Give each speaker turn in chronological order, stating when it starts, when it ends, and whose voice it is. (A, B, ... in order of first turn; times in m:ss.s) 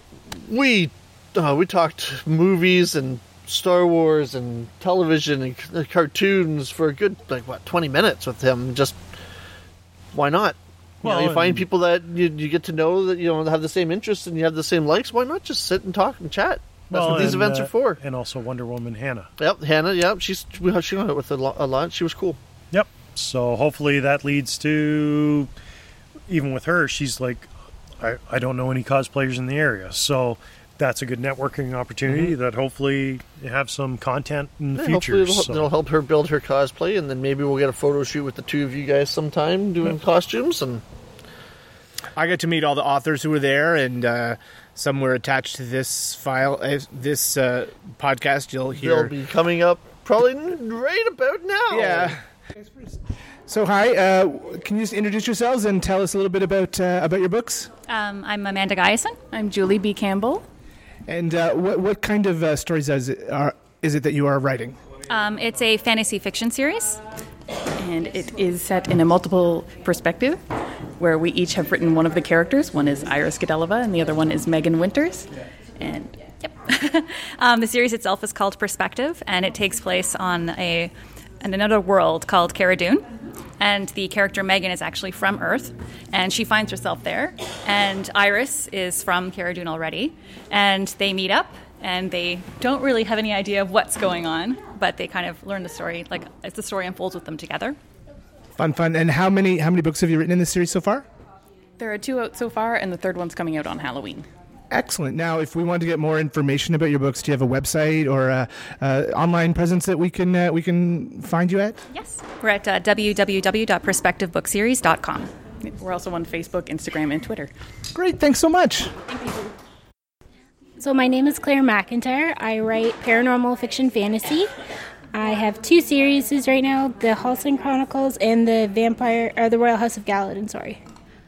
0:00.4-0:09.0 A
0:10.1-0:18.0 A
0:11.0-0:11.6 B
0:16.9-0:19.3 B
0:19.4-0:22.4 A
0:22.7-0:25.5 B
0:26.3-0:35.7 B
0:32.1-0:32.3 C
0:34.7-0:40.8 A
0:42.1-0:49.1 C
0:48.8-0:52.1 A
0:51.7-0:57.7 C
0:57.9-0:59.2 D
0:59.3-1:00.5 E
1:01.1-1:04.8 C
1:05.1-1:07.0 D
1:07.8-1:10.4 E
1:11.0-1:16.2 E
1:16.4-1:23.0 D
1:23.6-1:37.8 D
1:38.6-1:41.0 C
1:41.8-1:44.3 E
1:44.7-1:51.8 C
1:51.9-1:55.3 D
1:55.6-1:57.5 E
1:57.9-1:58.9 C
2:00.8-2:04.5 F
2:05.1-2:10.8 F